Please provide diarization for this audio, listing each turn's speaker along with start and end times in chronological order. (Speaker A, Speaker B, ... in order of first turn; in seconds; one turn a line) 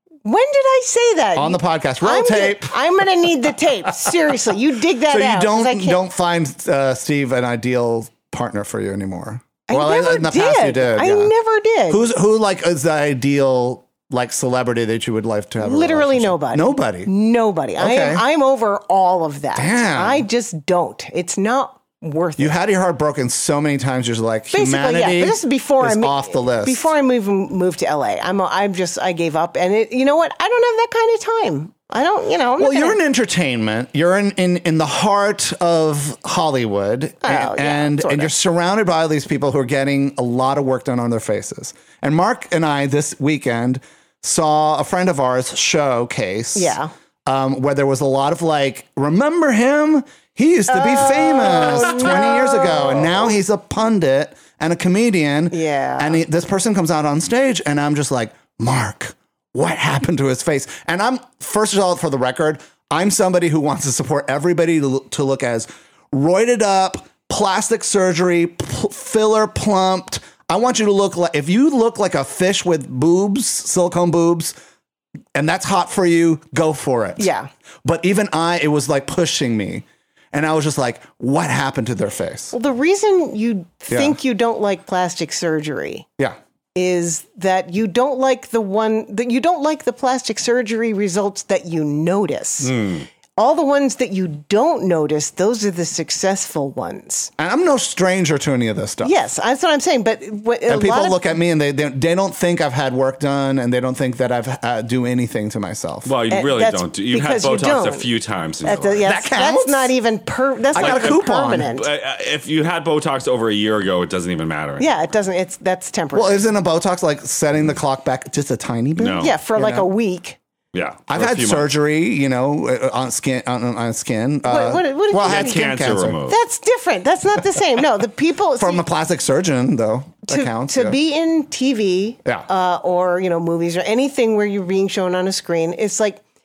Speaker A: 0.2-6.0
Speaker B: 1.4-2.8
Speaker B: 5.1-11.3
Speaker A: 9.7-12.0
Speaker B: 11.9-17.1
Speaker A: 15.6-22.6
Speaker B: 17.8-18.2
Speaker B: 19.6-20.2
Speaker B: 22.4-26.9
Speaker A: 24.5-33.0
Speaker B: 32.6-74.5
Speaker A: 37.2-38.3
Speaker A: 46.5-46.9
Speaker A: 50.7-53.3
Speaker A: 55.5-56.2
Speaker B: 75.3-77.3
Speaker A: 77.2-77.5
Speaker B: 77.8-82.5
Speaker A: 82.5-86.1
Speaker B: 83.9-84.2
Speaker A: 86.7-97.3
Speaker C: 92.6-93.1
Speaker B: 97.4-99.1
Speaker A: 99.0-101.3
Speaker B: 100.7-106.1
Speaker C: 106.1-109.0
Speaker A: 106.3-108.1
Speaker A: 108.6-111.9
Speaker B: 109.0-109.9
Speaker B: 110.7-111.8
Speaker C: 110.8-114.9
Speaker A: 114.8-116.5
Speaker B: 116.1-119.9
Speaker C: 119.0-119.3
Speaker A: 119.2-120.4
Speaker C: 120.7-121.7
Speaker B: 121.1-126.2
Speaker A: 124.4-128.8
Speaker C: 125.2-126.4
Speaker B: 128.6-131.0
Speaker A: 130.3-136.2